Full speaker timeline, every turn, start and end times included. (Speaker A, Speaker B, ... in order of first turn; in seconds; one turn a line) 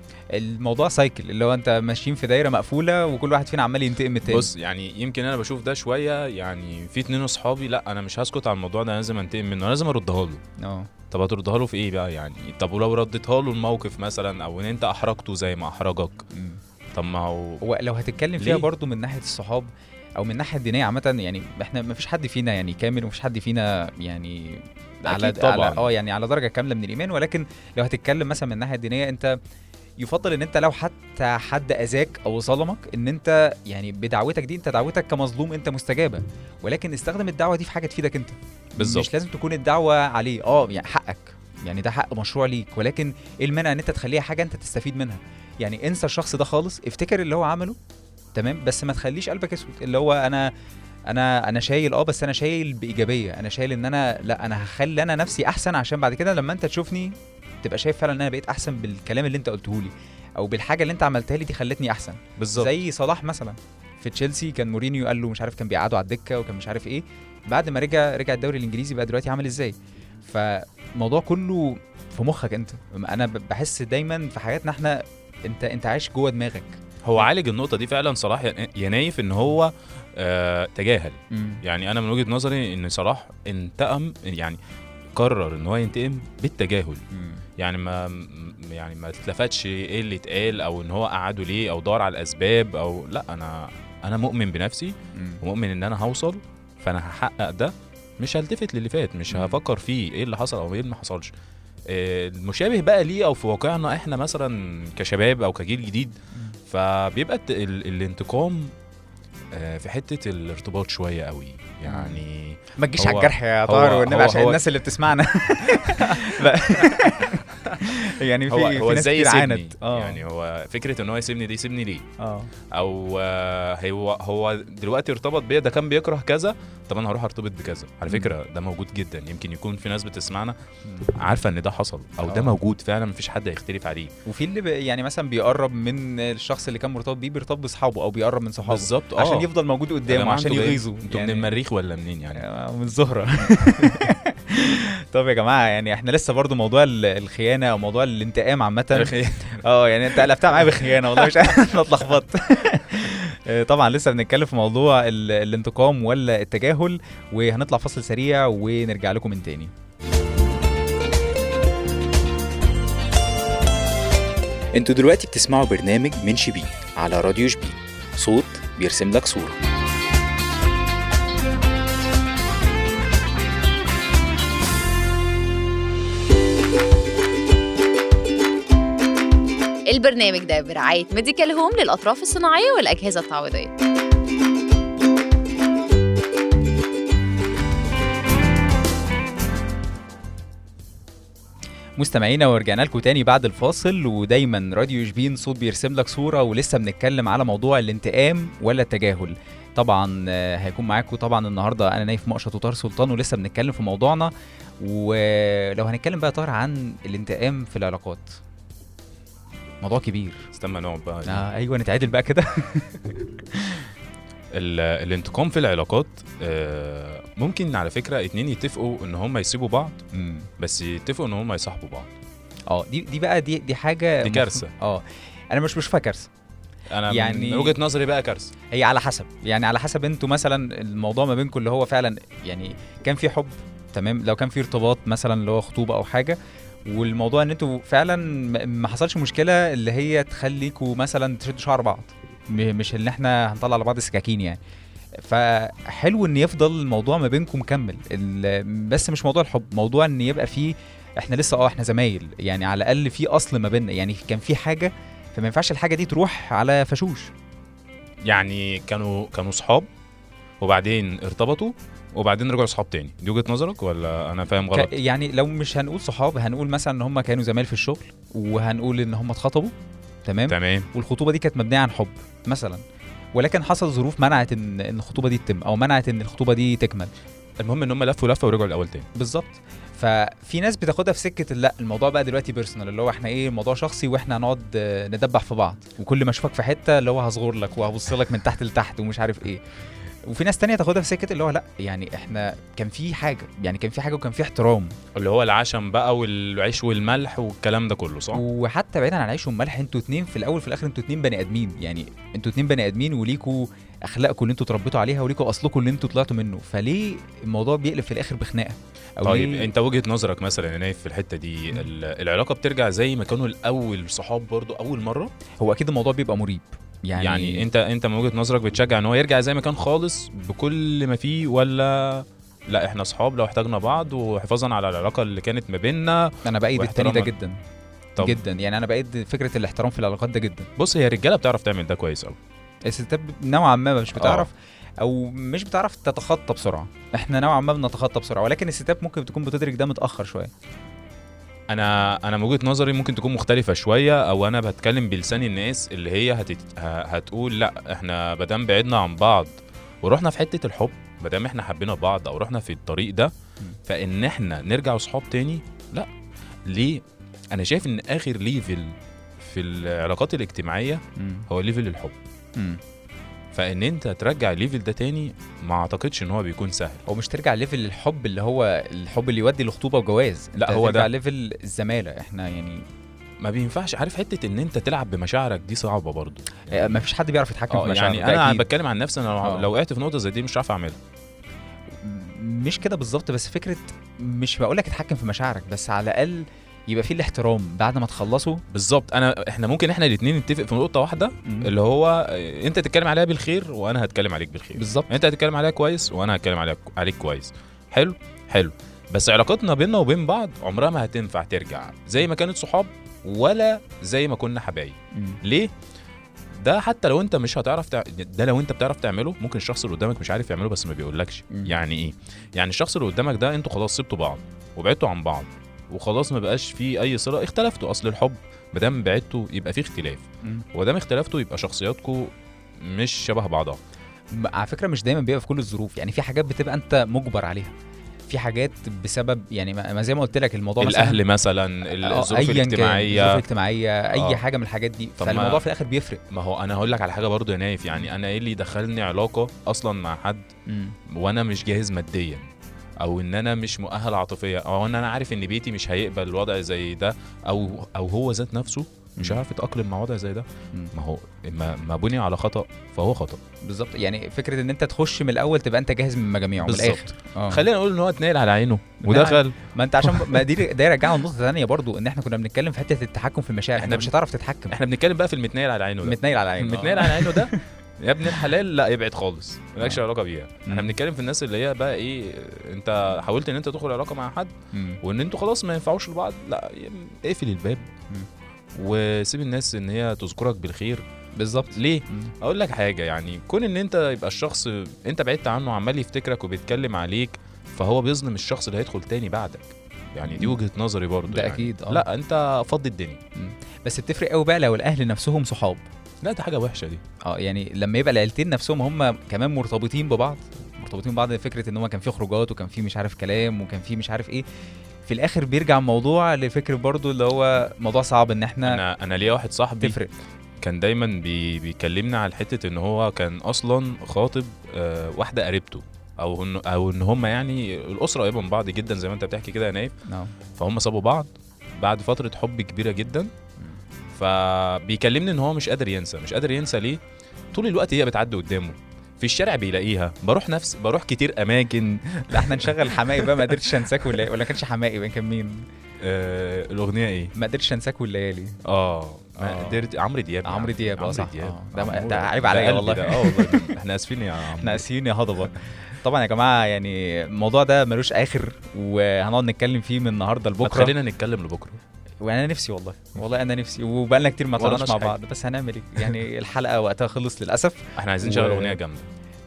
Speaker A: 0.3-4.5
Speaker B: 4.2-10.4
Speaker A: 10.6-10.9
Speaker B: 11.1-16.2
Speaker A: 16.4-16.6
Speaker B: 16.9-17.6
Speaker A: 17.6-29.3
Speaker B: 18.4-18.7
Speaker B: 25.1-25.9
Speaker A: 30.0-47.8
Speaker B: 38.8-39.1
Speaker A: 48.4-50.5
Speaker A: 51.1-69.7
Speaker B: 62.4-62.7
Speaker A: 70.2-76.8
Speaker B: 77.0-84.6
Speaker A: 81.3-81.6
Speaker B: 85.2-87.0
Speaker A: 87.1-87.4
Speaker B: 87.6-101.3
Speaker A: 95.2-95.4
Speaker A: 99.3-99.6
Speaker B: 101.9-106.2
Speaker B: 106.7-108.7
Speaker B: 109.5-114.6
Speaker A: 111.9-112.2
Speaker A: 112.8-120.2
Speaker B: 115.8-116.3
Speaker B: 118.5-122.0
Speaker A: 122.2-122.5
Speaker B: 122.7-130.6
Speaker A: 128.1-128.3
Speaker B: 131.2-134.1
Speaker A: 132.3-132.6
Speaker A: 134.2-141.5
Speaker B: 138.7-139.5
Speaker B: 140.1-142.4
Speaker A: 142.4-159.7
Speaker B: 148.9-152.0
Speaker C: 164.7-169.6
Speaker D: 179.9-183.7
Speaker A: 192.0-208.4
Speaker A: 209.8-210.5
Speaker B: 210.5-211.5
Speaker A: 211.2-213.9
Speaker B: 214.5-220.0
Speaker A: 220.1-220.5
Speaker B: 220.6-222.1
Speaker A: 222.7-226.3
Speaker B: 224.2-224.7
Speaker B: 226.9-228.5
Speaker A: 227.1-227.8
Speaker A: 228.7-244.6
Speaker A: 245.2-257.3
Speaker B: 258.2-259.9
Speaker B: 260.6-264.9
Speaker A: 264.7-269.7
Speaker A: 270.2-272.8
Speaker B: 270.5-270.9
Speaker A: 273.4-277.1
Speaker B: 277.6-279.1
Speaker A: 279.1-289.6
Speaker A: 290.3-294.9
Speaker B: 295.2-298.4
Speaker A: 298.3-309.7
Speaker B: 309.2-315.3
Speaker A: 315.6-317.7
Speaker B: 317.2-327.3
Speaker A: 326.4-327.6
Speaker A: 328.2-330.7
Speaker B: 330.8-332.4
Speaker A: 332.9-340.5
Speaker B: 334.1-334.5
Speaker B: 341.7-353.3
Speaker B: 353.9-356.1
Speaker B: 356.7-357.0
Speaker B: 357.5-362.2
Speaker A: 361.2-361.5
Speaker B: 363.5-367.0
Speaker A: 367.1-372.8
Speaker B: 370.6-371.1
Speaker B: 373.4-377.0
Speaker A: 376.7-378.7
Speaker B: 377.7-381.0
Speaker A: 382.0-388.6
Speaker B: 388.7-405.7
Speaker A: 391.4-391.7
Speaker A: 394.8-395.1
Speaker B: 406.6-420.2
Speaker B: 420.7-422.3
Speaker B: 422.8-423.8
Speaker A: 424.3-427.7
Speaker A: 428.3-431.2
Speaker B: 430.8-433.4
Speaker A: 431.9-436.2
Speaker B: 434.1-434.4
Speaker B: 435.2-435.6
Speaker B: 436.3-440.5
Speaker A: 440.7-441.0
Speaker B: 441.1-442.5
Speaker B: 443.0-453.4
Speaker A: 453.6-457.6
Speaker B: 456.6-460.4
Speaker A: 459.1-464.8
Speaker B: 463.8-464.1
Speaker B: 464.7-477.9
Speaker A: 466.0-467.6
Speaker A: 470.6-470.9
Speaker A: 474.7-475.0
Speaker B: 478.8-481.0
Speaker A: 481.4-482.3
Speaker B: 481.7-493.2
Speaker A: 490.2-490.6
Speaker A: 491.3-492.0
Speaker A: 493.4-495.9
Speaker B: 496.2-497.0
Speaker A: 497.2-504.4
Speaker A: 505.1-508.8
Speaker B: 508.6-510.0
Speaker A: 509.8-510.1
Speaker B: 510.6-519.9
Speaker A: 520.1-520.3
Speaker B: 520.6-523.3
Speaker B: 524.1-527.0
Speaker B: 527.5-534.2
Speaker A: 532.3-535.6
Speaker B: 536.0-537.3
Speaker A: 537.4-538.6
Speaker B: 538.7-544.8
Speaker A: 539.4-539.8
Speaker A: 540.4-543.6
Speaker A: 544.6-550.9
Speaker B: 550.6-551.8
Speaker A: 552.2-558.8
Speaker B: 554.6-555.1
Speaker B: 558.0-559.1